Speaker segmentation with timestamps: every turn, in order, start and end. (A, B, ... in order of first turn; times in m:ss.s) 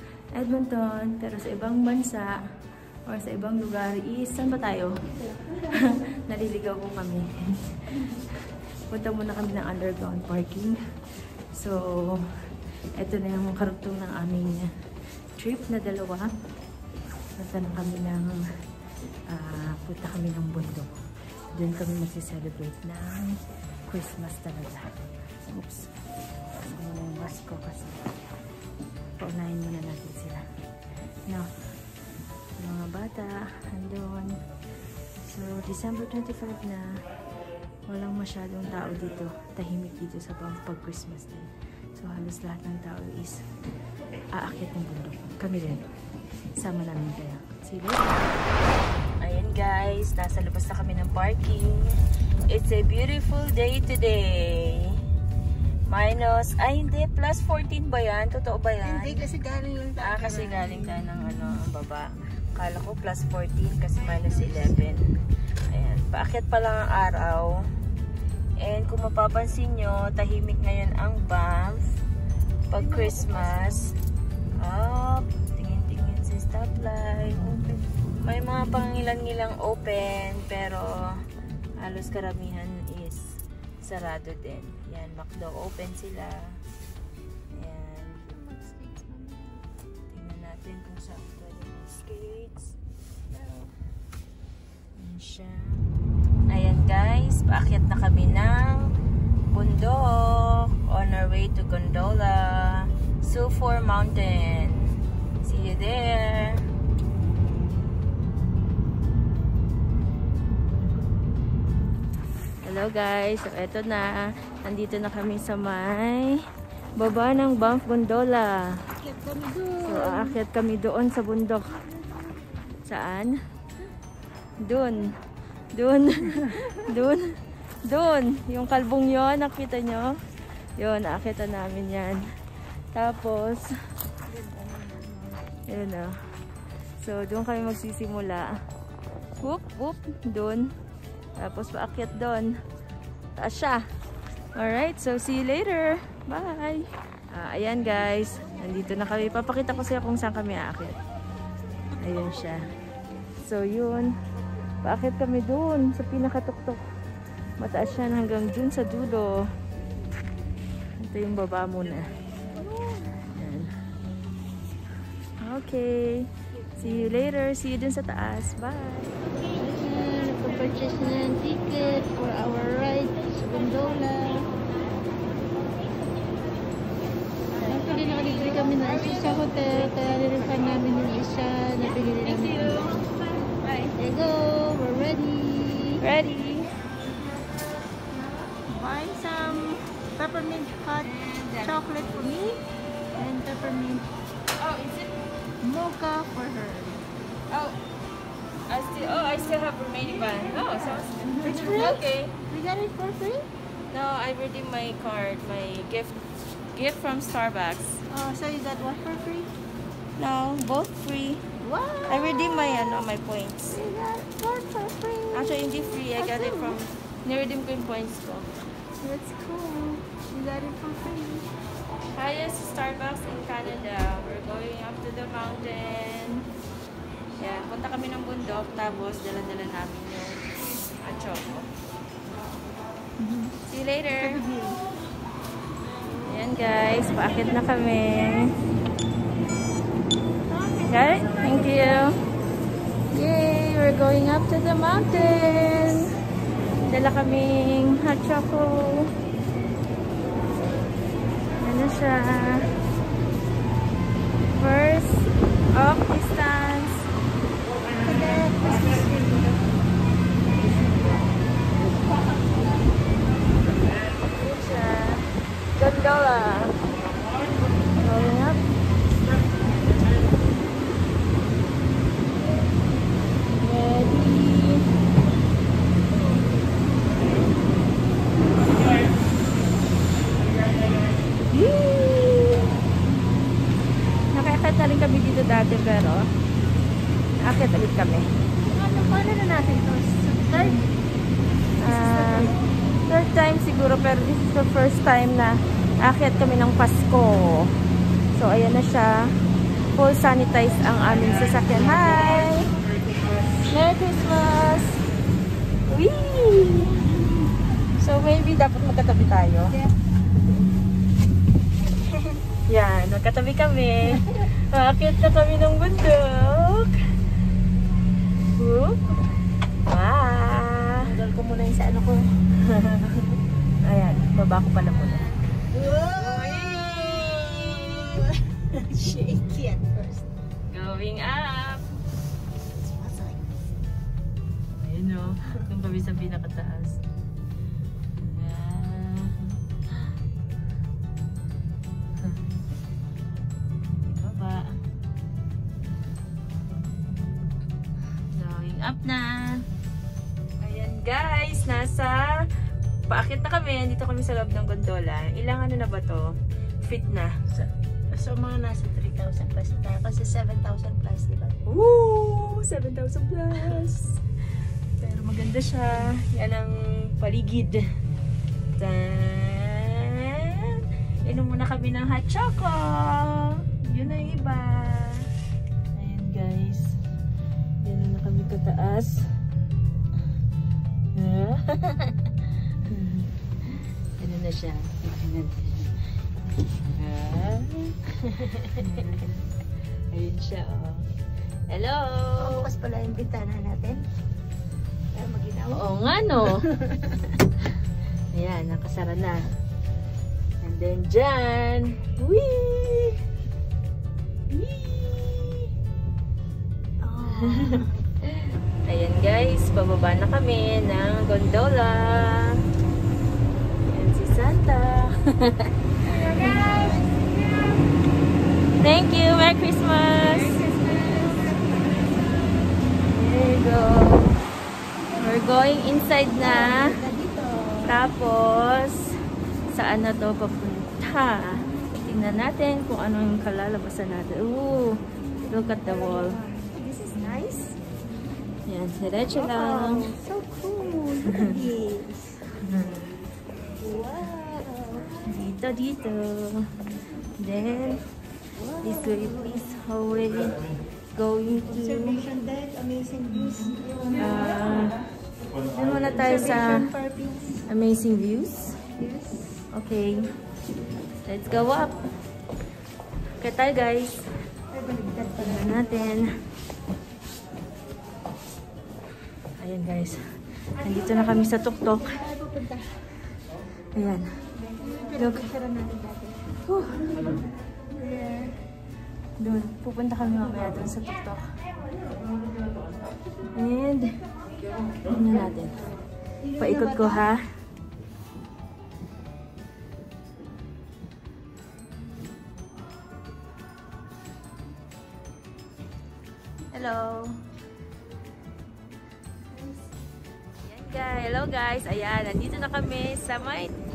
0:00.3-0:02.4 A
0:03.1-0:10.8 A
0:05.4-0:05.8 B
0:11.5-0:12.4 A
0:13.0-0:14.7 A
0:15.4-0:16.3 A
0:17.4-0:18.4 A
0:19.3-0:20.9 A
0:21.5-0:25.9 A
0:26.5-0:28.1 A
0:29.2-0:30.4 A
0:32.6-0:34.4 A
0:35.2-0:36.9 A
0:37.9-0:43.4 A
0:44.3-0:45.9 A
0:46.6-0:48.3 A
0:49.2-0:51.9 A
0:52.5-0:55.0 A
0:55.8-0:59.3 A
0:58.8-1:01.0 B
1:00.0-1:05.1 A
1:04.1-1:04.7 B
1:05.7-1:07.6 A
1:08.6-1:11.8 A
1:12.7-1:13.9 A
1:12.8-1:13.8 B
1:14.6-1:17.6 A
1:17.4-1:17.8 B
1:18.2-1:21.0 A
1:21.8-1:23.3 A
1:23.8-1:26.4 A
1:27.5-1:28.3 A
1:28.3-1:29.6 B
1:30.1-1:32.8 A
1:33.3-1:33.7 B
1:35.0-1:35.8 A
1:36.5-1:38.8 A
1:39.5-1:46.6 A
1:52.6-1:54.1 A
1:54.6-1:56.4 A
1:57.0-1:58.6 A
1:59.0-2:00.4 B
1:59.8-2:01.8 A
2:02.8-2:03.4 A
2:04.6-2:05.1 A
2:05.8-2:10.2 A
2:10.8-2:12.2 A
2:12.9-2:13.7 A
2:14.3-2:15.4 B
2:15.7-2:16.1 A
2:17.0-2:18.5 A
2:19.4-2:20.7 A
2:21.4-2:22.5 A
2:23.4-2:23.8 A
2:24.5-2:31.0 A
2:32.0-2:32.6 A
2:33.4-2:34.1 A
2:34.8-2:36.8 A
2:37.6-2:39.4 A
2:41.0-2:42.1 A
2:42.5-2:43.2 B
2:43.2-2:43.7 A
2:45.4-2:49.1 A
2:49.4-2:54.5 B
2:57.6-3:00.9 A
2:57.6-3:02.9 B
3:02.2-3:04.0 A
3:03.9-3:06.0 B
3:06.0-3:06.7 A
3:08.4-3:12.6 B
3:11.0-3:11.9 A
3:13.1-3:14.1 B
3:14.6-3:15.1 A
3:15.6-3:17.1 B
3:17.5-3:17.8 A
3:18.7-3:22.4 A
3:21.3-3:23.5 B
3:23.9-3:26.2 A
3:26.7-3:28.0 A
3:28.1-3:29.5 B
3:30.2-3:31.5 A
3:31.6-3:32.5 B
3:32.1-3:33.8 A
3:33.7-3:36.8 B
3:35.3-3:38.6 A
3:39.0-3:41.5 B
3:42.1-3:46.5 A
3:47.4-3:51.7 A
3:53.3-3:54.4 A
3:54.2-3:54.8 B
3:56.2-3:58.5 A
4:00.5-4:01.9 B
4:00.9-4:02.2 A
4:03.1-4:06.1 A
4:06.9-4:09.1 A
4:11.6-4:12.7 A
4:14.5-4:17.1 A
4:18.0-4:19.7 B
4:20.5-4:21.2 A
4:24.3-4:26.8 A
4:28.0-4:28.6 A
4:33.6-4:34.9 A
4:41.5-4:42.8 A
4:44.3-4:46.3 A
4:47.4-4:48.3 A
4:48.7-4:50.9 B
4:50.5-4:50.8 A
4:51.8-4:52.5 A
4:51.8-4:52.6 B
4:53.1-4:57.7 A
4:58.3-4:59.3 A
4:59.9-5:02.7 A
5:03.6-5:05.0 A
5:05.9-5:07.1 A
5:08.0-5:09.8 A
5:12.7-5:17.0 A
5:18.5-5:19.2 A
5:19.8-5:21.1 A
5:21.0-5:22.2 B
5:22.5-5:25.6 A
5:25.7-5:30.3 B
5:26.1-5:27.8 A
5:30.7-5:31.8 A
5:32.8-5:33.4 B
5:34.8-5:37.0 A
5:38.2-5:39.6 A
5:42.2-5:42.6 A
5:44.0-5:44.7 A
5:48.3-5:49.6 A
5:50.6-5:52.3 A
5:53.1-5:57.3 A
5:57.5-6:01.6 B
6:01.6-6:04.2 A
6:05.0-6:07.8 A
6:08.8-6:15.3 A
6:15.9-6:17.0 A
6:17.8-6:19.2 A
6:21.1-6:22.2 A
6:22.8-6:23.3 A
6:24.2-6:26.0 A
6:26.8-6:29.5 A
6:30.1-6:31.0 A
6:31.7-6:32.7 A
6:32.4-6:34.0 B
6:35.1-6:37.4 B
6:35.7-6:36.6 A
6:38.3-6:39.5 A
6:40.6-6:43.2 A
6:44.5-6:45.7 A
6:47.0-6:47.9 B
6:47.2-6:52.6 A
6:53.9-6:56.9 A
6:56.0-6:57.8 B
6:58.7-7:01.2 A
7:00.5-7:02.2 B
7:03.0-7:04.4 A
7:05.1-7:06.9 A
7:06.4-7:08.0 B
7:07.8-7:09.2 A
7:09.7-7:16.4 A
7:15.5-7:17.8 B
7:18.7-7:20.0 A
7:19.3-7:22.4 B
7:21.2-7:21.6 A
7:22.6-7:23.1 A
7:23.8-7:25.2 B
7:25.0-7:26.7 A
7:27.4-7:28.0 A
7:28.6-7:29.3 B
7:28.8-7:32.2 A
7:31.7-7:34.9 B
7:33.6-7:35.0 A
7:35.7-7:36.9 A
7:36.1-7:37.6 B
7:37.7-7:38.8 A
7:38.9-7:39.6 B
7:39.7-7:40.2 A
7:41.2-7:42.0 A
7:43.4-7:44.3 A
7:44.7-7:46.1 B
7:45.3-7:46.4 A
7:49.6-7:52.2 A
7:52.0-7:53.0 B
7:53.9-7:54.3 A
7:54.8-7:56.5 B
7:55.1-7:55.5 A
7:56.6-7:57.4 A
7:58.0-7:58.5 A
7:59.4-8:01.5 A
8:03.5-8:04.2 A
8:05.0-8:05.9 A
8:06.4-8:07.2 B
8:06.6-8:07.5 A
8:16.7-8:17.4 A
8:19.5-8:19.8 B
8:20.6-8:23.8 A